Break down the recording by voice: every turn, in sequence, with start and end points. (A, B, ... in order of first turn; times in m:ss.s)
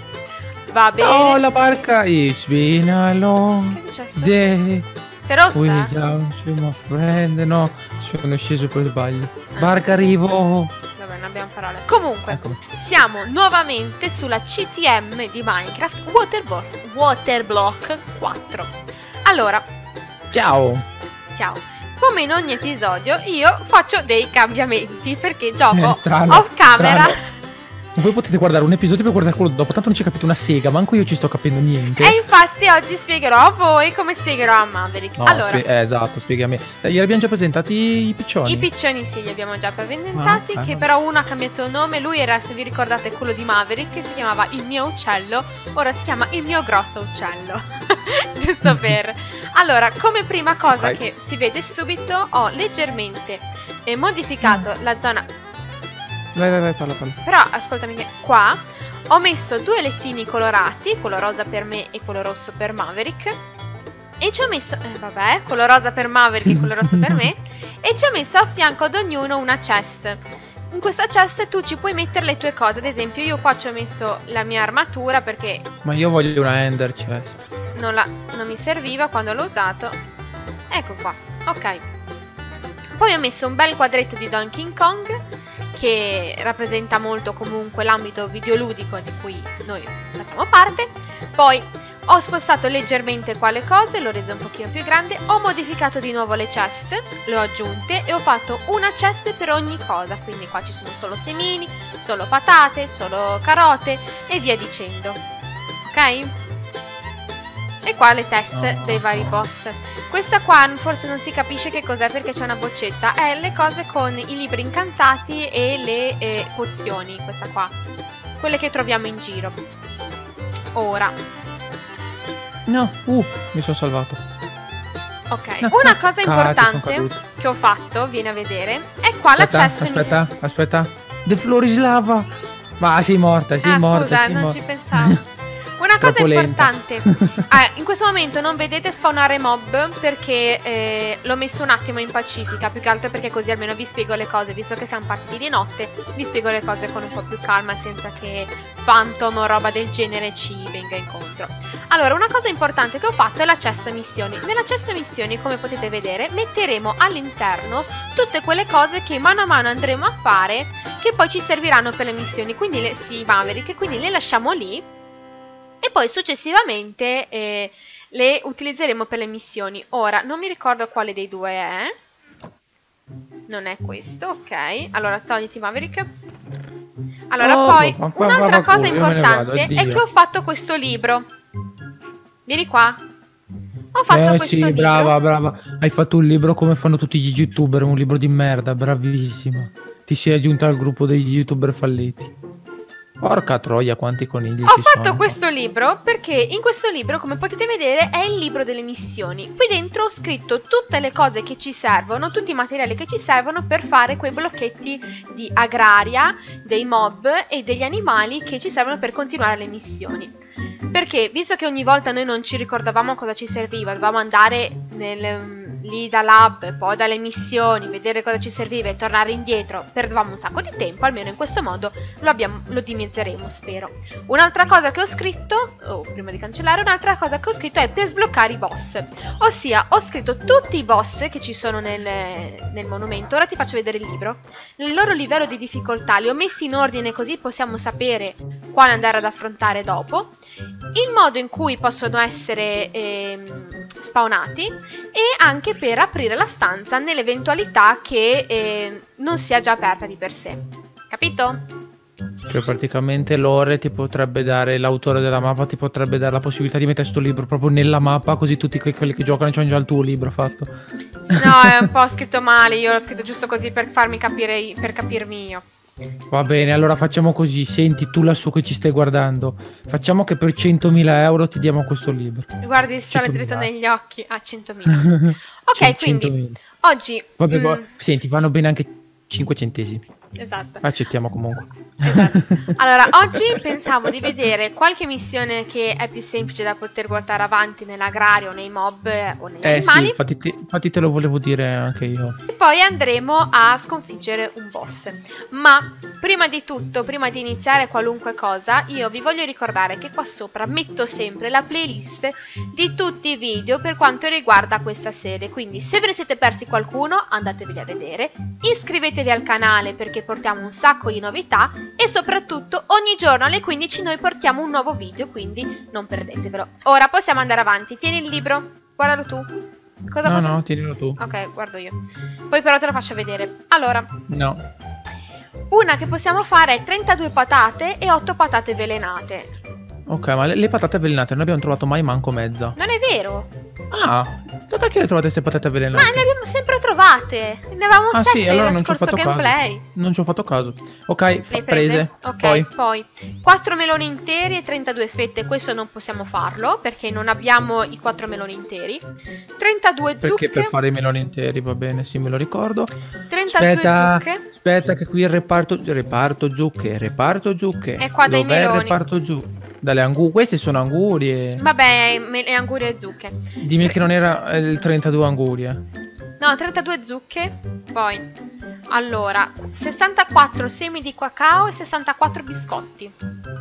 0:00.7-0:01.4 A
0:01.0-0:04.9 B
0:03.7-0:04.4 A
0:05.2-0:05.9 A
0:05.5-0:10.7 B
0:09.5-0:09.8 A
0:11.0-0:18.7 A
0:12.3-0:12.6 B
0:19.2-0:19.6 A
0:20.3-0:20.8 B
0:21.3-0:27.3 A
0:25.7-0:27.2 B
0:27.9-0:32.2 B
0:32.0-0:35.6 A
0:35.2-0:38.7 B
0:38.4-0:55.3 A
0:40.1-0:40.9 B
0:48.6-0:49.0 B
0:50.7-0:51.0 B
0:54.4-0:54.7 B
0:56.3-0:57.2 B
0:57.2-1:03.4 A
1:04.2-1:15.7 A
1:06.4-1:07.3 B
1:15.8-1:17.5 B
1:17.7-1:20.0 A
1:20.7-1:21.8 A
1:23.0-1:25.2 A
1:25.7-1:45.2 A
1:45.8-1:46.3 A
1:47.8-1:57.7 A
1:48.5-1:49.5 B
1:58.4-1:59.6 A
2:00.7-2:01.2 A
2:02.7-2:04.2 B
2:05.3-2:10.2 A
2:05.6-2:07.2 B
2:09.3-2:15.2 B
2:13.6-2:15.2 A
2:15.8-2:44.8 A
2:16.0-2:17.5 B
2:45.8-2:51.9 A
2:53.5-2:56.1 A
2:57.3-3:01.3 A
2:57.4-3:00.0 B
3:02.4-3:03.0 A
3:03.9-3:05.2 A
3:04.1-3:12.3 B
3:13.2-3:15.3 B
3:14.7-3:30.4 A
3:30.9-4:00.3 A
4:00.9-4:11.6 A
4:12.5-4:20.7 B
4:21.2-4:25.6 A
4:21.3-4:21.9 B
4:26.3-4:32.5 B
4:32.6-4:37.9 A
4:33.1-4:33.7 B
4:34.8-4:36.6 B
4:37.4-4:40.1 B
4:40.4-4:40.8 A
4:40.8-4:44.3 B
4:42.0-4:50.2 A
4:49.6-4:52.4 B
4:52.5-5:19.5 A
5:20.1-5:20.6 A
5:20.2-5:21.2 B
5:21.2-5:24.1 A
5:24.3-5:24.6 B
5:25.7-5:29.5 A
5:30.1-5:32.8 B
5:32.8-5:33.5 A
5:33.9-5:36.2 B
5:35.9-5:39.8 A
5:38.1-5:42.7 B
5:41.5-5:49.0 A
5:49.6-5:50.8 A
5:50.2-5:52.9 B
5:53.3-5:54.4 A
5:53.5-6:01.6 B
5:58.0-5:59.0 A
6:01.6-6:03.4 A
6:03.6-6:05.8 B
6:06.4-6:08.3 A
6:08.9-6:13.1 A